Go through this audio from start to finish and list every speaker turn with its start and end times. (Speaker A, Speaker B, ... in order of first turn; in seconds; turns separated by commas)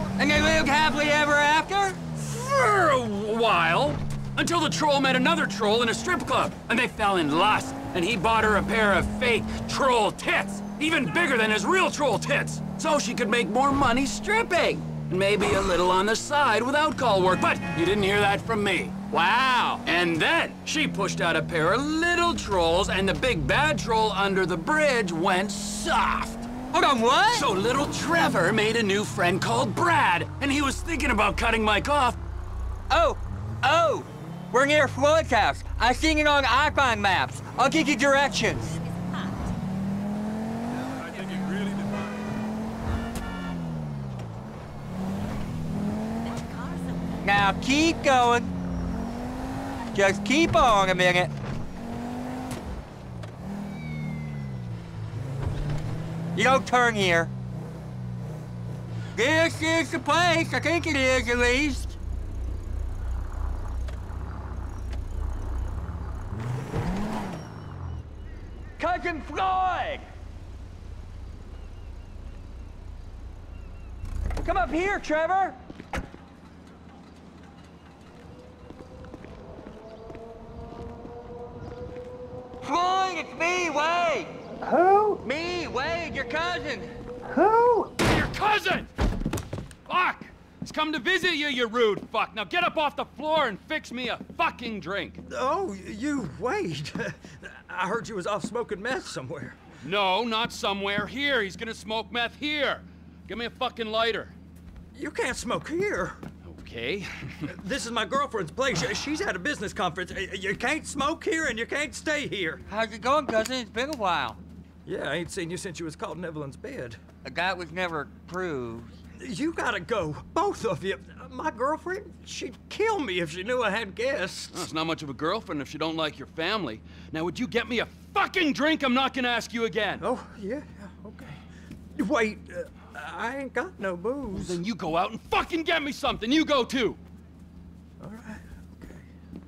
Speaker A: 0.2-2.0, Speaker B: 2.1-18.9, Speaker A: 19.1-19.8, Speaker B: 19.8-26.5, Speaker A: 26.7-27.5, Speaker B: 27.3-32.2, Speaker A: 32.9-39.0, Speaker B: 41.5-41.7, Speaker A: 47.2-48.5, Speaker A: 49.9-51.3, Speaker A: 56.3-57.3, Speaker A: 59.1-62.0, Speaker A: 68.8-70.1, Speaker A: 74.4-75.6, Speaker A: 82.6-87.9, Speaker B: 88.0-88.9, Speaker B: 89.9-95.2, Speaker C: 95.2-99.7, Speaker B: 99.8-104.3, Speaker C: 104.9-106.2, Speaker B: 106.4-107.5, Speaker C: 107.5-112.6, Speaker A: 112.7-114.4, Speaker C: 114.8-117.0, Speaker A: 117.2-118.9, Speaker C: 119.2-124.7, Speaker B: 124.5-130.0, Speaker C: 130.0-131.4, Speaker C: 131.9-134.6, Speaker B: 134.3-137.0, Speaker C: 138.0-139.1